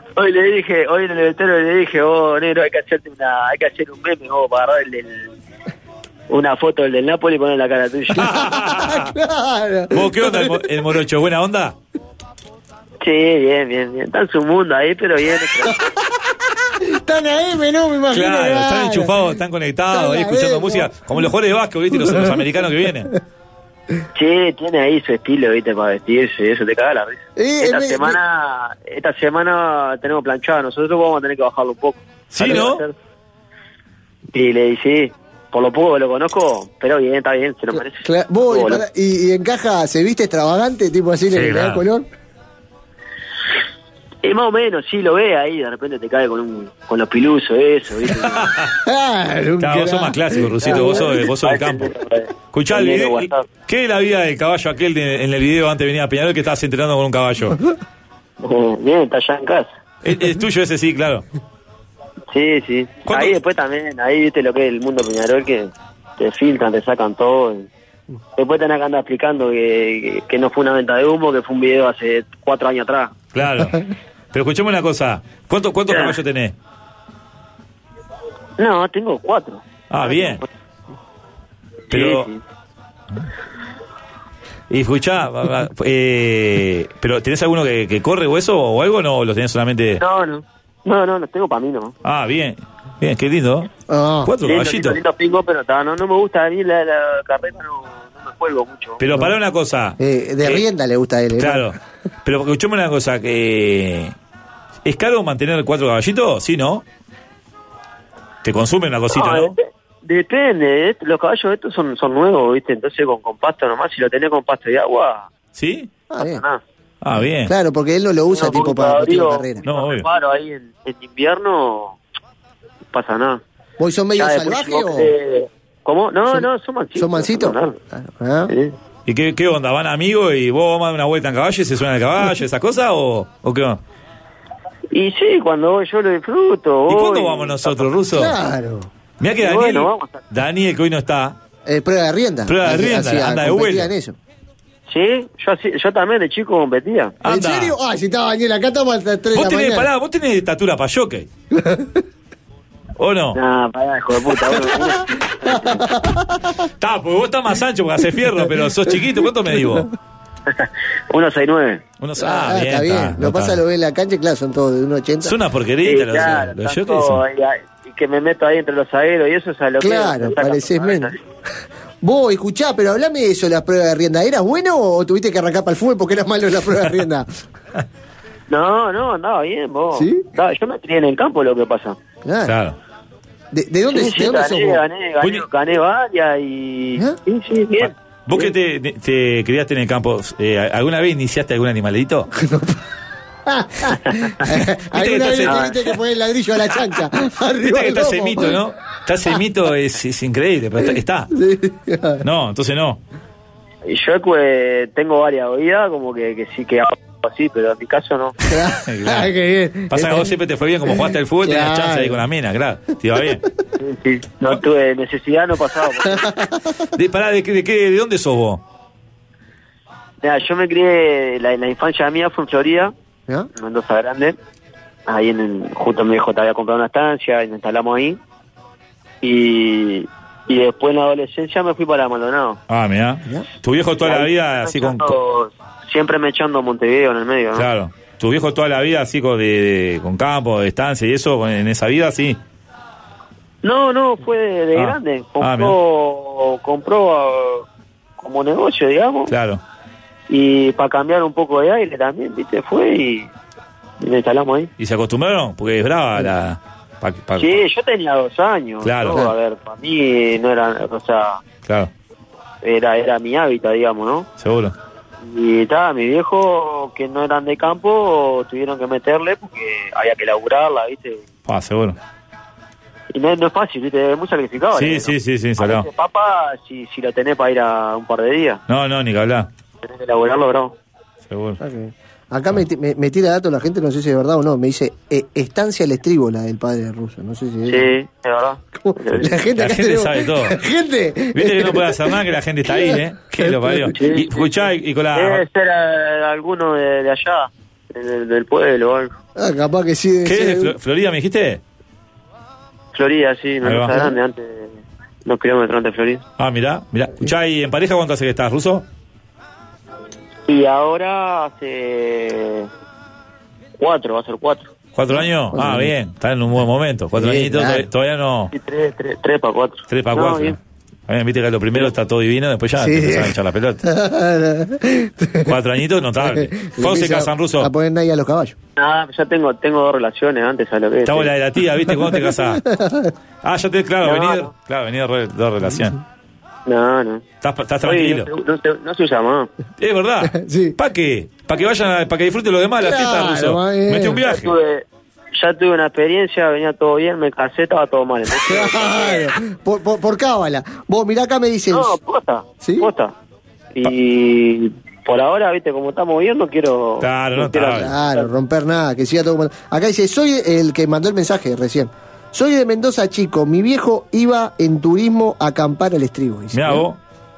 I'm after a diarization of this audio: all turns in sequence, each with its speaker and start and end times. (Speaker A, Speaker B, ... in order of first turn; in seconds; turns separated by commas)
Speaker A: 0.2-5.3, Speaker A: 6.3-8.5, Speaker B: 8.2-9.1, Speaker C: 8.2-10.8, Speaker B: 9.9-11.8, Speaker A: 13.0-15.8, Speaker C: 16.8-19.3, Speaker B: 18.1-23.1, Speaker C: 19.9-21.3, Speaker C: 21.9-22.5, Speaker A: 24.1-32.9, Speaker C: 27.4-28.2, Speaker B: 32.3-32.8, Speaker A: 34.3-38.8, Speaker C: 37.7-42.1, Speaker B: 41.3-41.9, Speaker A: 44.2-48.6, Speaker C: 48.8-51.0, Speaker B: 49.6-51.9, Speaker A: 50.6-53.5, Speaker B: 52.5-57.6, Speaker A: 58.4-59.7, Speaker B: 60.0-61.3, Speaker A: 62.3-67.7, Speaker B: 63.1-63.4, Speaker A: 68.4-73.2, Speaker B: 73.3-76.5, Speaker A: 75.9-76.2, Speaker A: 78.6-80.5, Speaker B: 79.9-80.4, Speaker A: 81.9-82.4, Speaker B: 81.9-82.3, Speaker B: 84.7-90.0, Speaker A: 90.0-92.0, Speaker B: 92.0-93.7, Speaker C: 93.9-94.3, Speaker B: 94.2-95.0, Speaker A: 94.4-99.0, Speaker B: 99.0-100.7, Speaker C: 100.0-101.7, Speaker B: 101.3-104.1, Speaker B: 104.8-106.8, Speaker B: 108.4-109.5, Speaker A: 109.1-115.3, Speaker B: 115.5-115.9, Speaker C: 116.1-116.4, Speaker A: 116.2-116.6, Speaker B: 117.0-117.5, Speaker C: 117.4-119.7, Speaker A: 118.3-122.0, Speaker B: 119.7-120.1, Speaker A: 122.9-123.4, Speaker C: 123.8-125.1, Speaker A: 124.2-127.8, Speaker C: 126.3-128.5, Speaker A: 128.5-128.8, Speaker B: 129.1-133.8, Speaker A: 134.9-137.9, Speaker B: 136.9-138.3, Speaker C: 138.1-138.9, Speaker B: 139.2-141.4, Speaker A: 139.4-140.2, Speaker C: 141.7-144.2, Speaker B: 142.5-143.9, Speaker A: 144.9-147.2, Speaker B: 147.2-147.8, Speaker C: 147.2-149.9, Speaker B: 149.3-151.3, Speaker C: 151.5-152.0, Speaker B: 153.0-153.4, Speaker A: 153.3-155.8, Speaker C: 154.4-156.7, Speaker B: 156.8-159.9, Speaker C: 159.5-159.9, Speaker A: 160.5-161.8, Speaker B: 162.0-163.6, Speaker C: 162.2-165.4, Speaker B: 165.2-167.2, Speaker A: 165.8-171.2, Speaker C: 169.8-171.1, Speaker C: 172.0-177.4, Speaker A: 178.5-182.0, Speaker C: 179.9-180.2, Speaker C: 182.2-182.6, Speaker B: 182.4-182.8, Speaker C: 183.5-184.8, Speaker A: 183.9-188.5, Speaker B: 187.8-192.3, Speaker C: 192.3-192.8, Speaker C: 193.5-198.6, Speaker B: 194.9-195.8, Speaker A: 195.5-195.7, Speaker B: 197.6-201.3, Speaker C: 201.3-202.2, Speaker B: 202.2-203.0, Speaker A: 203.9-208.4, Speaker C: 208.5-210.3, Speaker B: 208.9-209.3, Speaker B: 209.9-213.4, Speaker C: 210.9-212.2, Speaker A: 213.8-216.3, Speaker C: 216.1-216.9, Speaker B: 216.9-218.6, Speaker A: 220.2-222.9, Speaker A: 223.5-224.4, Speaker A: 225.1-228.2, Speaker A: 229.2-232.6, Speaker B: 232.7-235.1, Speaker A: 234.0-237.7, Speaker B: 237.6-242.4, Speaker A: 243.6-247.7, Speaker B: 244.8-245.8, Speaker A: 248.2-249.3, Speaker B: 249.3-249.6, Speaker A: 250.3-253.3, Speaker A: 254.0-254.7, Speaker B: 254.8-257.6, Speaker A: 257.4-261.4, Speaker B: 258.8-259.2, Speaker B: 261.6-261.9, Speaker A: 262.6-264.3, Speaker B: 264.4-264.8, Speaker A: 265.2-271.2, Speaker B: 271.5-272.0, Speaker A: 273.1-278.6, Speaker B: 274.7-275.9, Speaker B: 278.7-279.5, Speaker A: 279.8-280.8, Speaker B: 281.3-281.6, Speaker C: 281.6-287.9, Speaker A: 287.7-289.4, Speaker C: 288.8-293.9, Speaker B: 289.6-290.6, Speaker B: 291.3-295.4, Speaker A: 293.9-299.1, Speaker C: 299.4-300.8, Speaker B: 300.2-301.6, Speaker A: 302.9-304.7, Speaker B: 303.6-303.9, Speaker C: 303.9-304.1, Speaker A: 305.2-306.2, Speaker B: 306.4-308.9, Speaker A: 310.5-312.7, Speaker A: 313.8-314.7, Speaker B: 314.9-318.5, Speaker C: 315.2-315.9, Speaker C: 317.1-317.9, Speaker A: 318.5-320.6, Speaker B: 319.9-323.8, Speaker C: 322.8-325.6, Speaker B: 325.4-327.7, Speaker C: 326.2-328.6, Speaker A: 328.8-331.3, Speaker B: 331.1-332.6, Speaker C: 331.9-333.1, Speaker B: 333.4-336.0, Speaker A: 334.0-334.5, Speaker C: 335.6-336.0, Speaker A: 336.7-337.2, Speaker B: 337.4-338.3, Speaker A: 337.8-339.5, Speaker B: 339.8-344.6, Speaker C: 340.2-340.8, Speaker C: 342.8-344.2, Speaker A: 344.2-349.4, Speaker C: 348.4-352.0, Speaker A: 351.7-353.1, Speaker C: 352.6-352.9, Speaker A: 353.7-358.3, Speaker B: 357.0-357.9, Speaker C: 357.6-366.8, Speaker B: 366.5-367.0